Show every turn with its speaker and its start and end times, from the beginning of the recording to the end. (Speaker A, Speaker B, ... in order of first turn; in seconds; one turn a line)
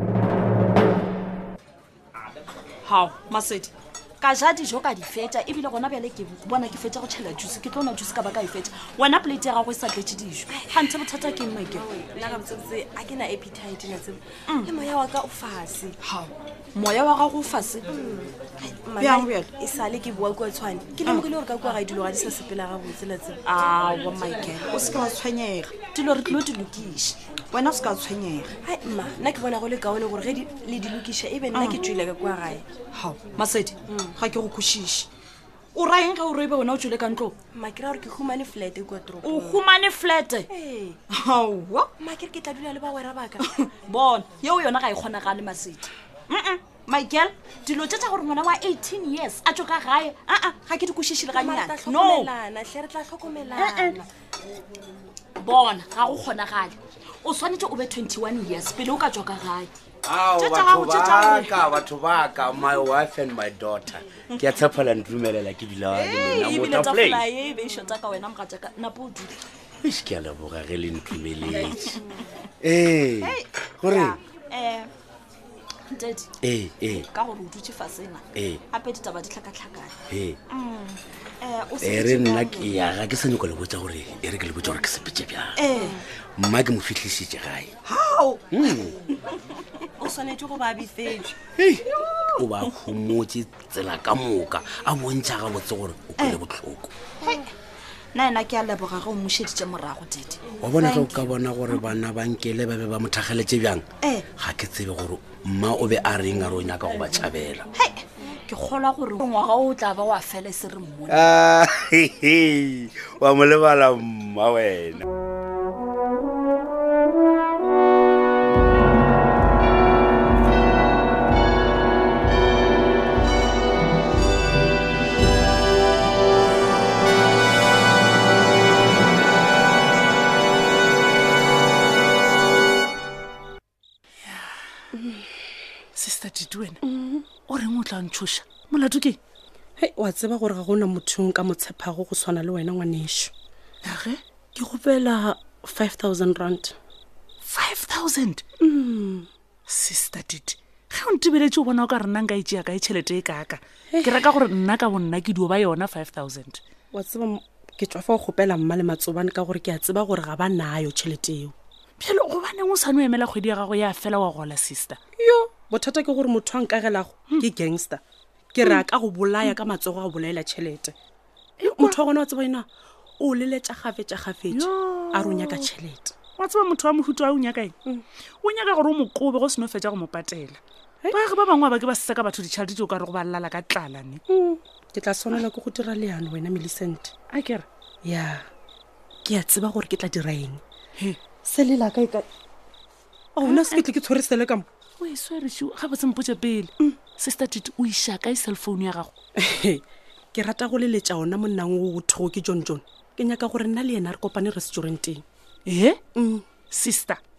Speaker A: 2.8-11.8
Speaker B: 11.7-16.0
Speaker A: 14.5-14.8
Speaker A: 16.0-17.9
Speaker B: 17.9-23.4
Speaker A: 19.0-19.5
Speaker A: 23.4-28.5
Speaker B: 24.5-25.0
Speaker B: 28.6-32.8
Speaker A: 31.5-31.8
Speaker A: 32.9-34.5
Speaker B: 33.9-35.1
Speaker A: 35.7-37.4
Speaker B: 37.5-39.6
Speaker A: 39.2-40.5
Speaker B: 40.5-41.0
Speaker A: 41.0-41.9
Speaker B: 42.0-43.7
Speaker A: 43.7-52.3
Speaker B: 50.6-54.1
Speaker A: 53.5-54.0
Speaker A: 55.4-59.7
Speaker C: 60.0-67.2
Speaker A: 60.2-61.9
Speaker A: 64.3-64.7
Speaker A: 65.9-69.4
Speaker C: 69.8-71.8
Speaker A: 71.3-72.0
Speaker C: 72.6-74.1
Speaker A: 73.2-74.9
Speaker A: 75.9-80.0
Speaker C: 76.4-77.1
Speaker C: 78.3-78.6
Speaker C: 80.1-80.4
Speaker A: 80.5-83.0
Speaker C: 81.8-85.7
Speaker A: 85.5-86.0
Speaker C: 86.4-87.7
Speaker A: 87.8-88.9
Speaker C: 88.5-88.9
Speaker B: 90.0-91.3
Speaker A: 92.3-92.8
Speaker C: 92.3-96.9
Speaker A: 97.2-97.5
Speaker A: 98.1-101.8
Speaker C: 100.6-107.7
Speaker A: 104.0-104.3
Speaker A: 107.7-111.3
Speaker C: 111.1-115.0
Speaker D: 134.2-134.5
Speaker D: 135.9-136.8
Speaker E: 136.8-137.2
Speaker D: 137.5-139.2
Speaker E: 139.8-143.3
Speaker D: 143.8-144.2
Speaker E: 144.5-146.7
Speaker D: 147.4-148.4
Speaker E: 148.6-149.3
Speaker D: 149.7-156.6
Speaker E: 156.9-161.5
Speaker D: 162.0-165.0
Speaker E: 165.2-168.0
Speaker E: 168.5-170.9
Speaker D: 171.6-172.0
Speaker E: 171.6-172.7
Speaker E: 173.2-176.1
Speaker D: 174.5-175.7
Speaker D: 176.4-177.8
Speaker D: 178.4-184.2
Speaker E: 184.3-187.1
Speaker D: 187.3-187.6
Speaker E: 188.0-188.4
Speaker E: 189.2-190.6
Speaker E: 191.4-192.3
Speaker E: 193.3-194.7
Speaker D: 193.4-193.8
Speaker D: 195.0-199.1
Speaker E: 199.4-199.8
Speaker E: 200.3-205.2
Speaker D: 205.7-206.0
Speaker E: 206.1-206.4
Speaker D: 206.7-207.2